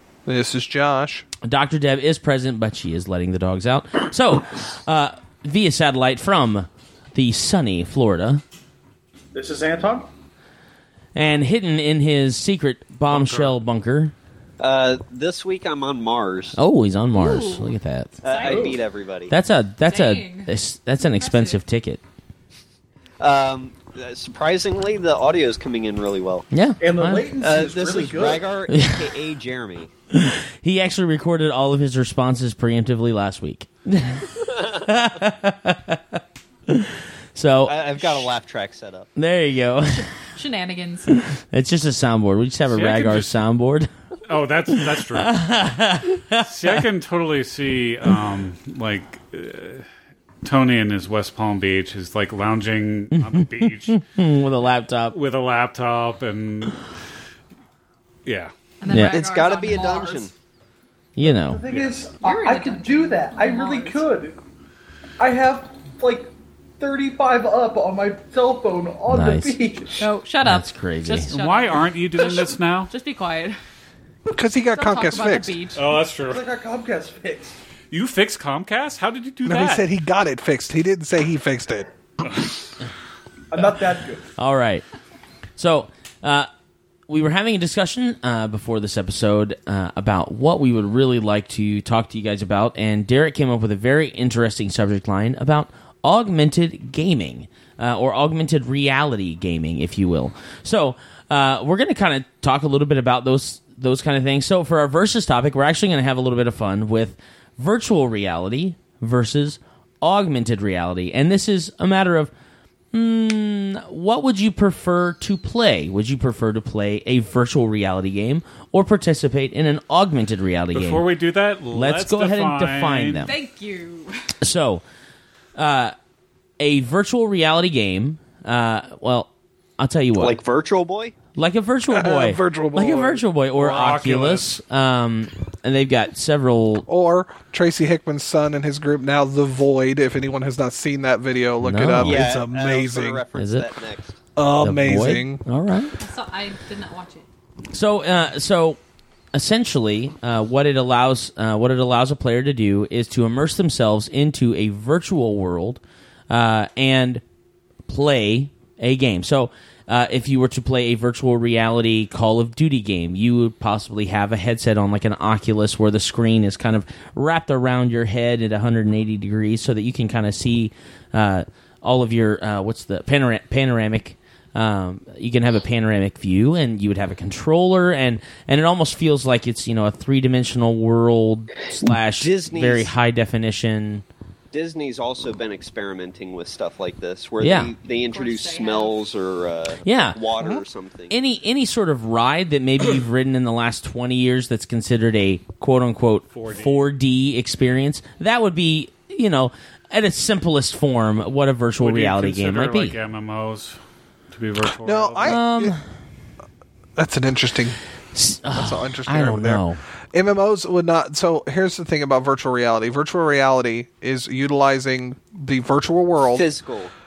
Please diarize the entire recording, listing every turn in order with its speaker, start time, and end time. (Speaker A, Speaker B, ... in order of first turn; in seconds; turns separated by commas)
Speaker A: 0.2-1.2, Speaker B: 1.4-8.4, Speaker C: 9.3-10.1, Speaker B: 11.1-14.1, Speaker D: 13.1-13.5, Speaker E: 14.6-16.6, Speaker B: 16.6-18.1, Speaker F: 17.1-18.8, Speaker E: 18.2-19.3, Speaker C: 18.4-18.8, Speaker B: 19.3-22.0, Speaker F: 19.8-21.6, Speaker E: 23.2-26.4, Speaker B: 26.5-27.3, Speaker C: 26.8-28.6, Speaker E: 27.4-29.9, Speaker B: 28.7-29.1, Speaker B: 30.1-38.2, Speaker E: 37.6-39.1, Speaker B: 39.1-40.1, Speaker F: 39.9-41.2, Speaker B: 41.1-43.9, Speaker D: 42.7-43.4, Speaker D: 44.2-45.4, Speaker B: 45.1-46.9, Speaker D: 46.4-49.9, Speaker D: 50.4-54.0, Speaker B: 53.1-55.1, Speaker D: 55.1-56.8, Speaker D: 58.2-58.5, Speaker F: 58.8-60.3, Speaker B: 58.9-59.2, Speaker E: 59.1-60.3, Speaker B: 61.1-61.6, Speaker C: 61.2-64.3, Speaker D: 61.7-62.0, Speaker F: 62.2-64.1, Speaker C: 65.2-70.1, Speaker B: 69.1-69.6, Speaker F: 70.0-73.6, Speaker B: 70.4-71.3, Speaker D: 71.3-72.9, Speaker A: 74.3-75.5, Speaker F: 74.7-76.0, Speaker D: 75.7-76.5, Speaker C: 76.2-77.5, Speaker D: 77.9-79.9, Speaker A: 79.4-81.9, Speaker C: 83.5-84.3, Speaker B: 84.4-84.8, Speaker B: 85.6-86.5, Speaker B: 87.1-112.3, Speaker B: 112.9-121.0, Speaker D: 120.7-123.3, Speaker B: 121.7-123.3, Speaker F: 123.2-124.3, Speaker B: 124.4-124.8, Speaker B: 125.5-125.9, Speaker B: 126.6-130.4, Speaker E: 130.2-131.1, Speaker B: 131.3-136.8, Speaker A: 131.9-133.2, Speaker D: 133.6-134.5, Speaker A: 136.9-143.2, Speaker B: 141.6-142.3, Speaker E: 142.0-144.2, Speaker B: 143.3-143.7, Speaker A: 144.3-145.4, Speaker B: 144.6-145.9, Speaker F: 146.0-147.3, Speaker B: 147.7-148.8, Speaker B: 149.3-157.2, Speaker B: 157.9-184.0, Speaker E: 182.2-182.9, Speaker E: 184.5-191.1, Speaker B: 187.4-187.7, Speaker F: 187.9-189.1, Speaker B: 189.8-190.2, Speaker B: 191.1-202.9, Speaker D: 196.3-196.8, Speaker D: 201.8-203.8, Speaker D: 204.3-205.4, Speaker A: 204.8-205.7, Speaker B: 205.2-205.8, Speaker A: 207.0-207.8, Speaker B: 208.1-209.8, Speaker A: 208.5-216.5, Speaker E: 216.3-216.9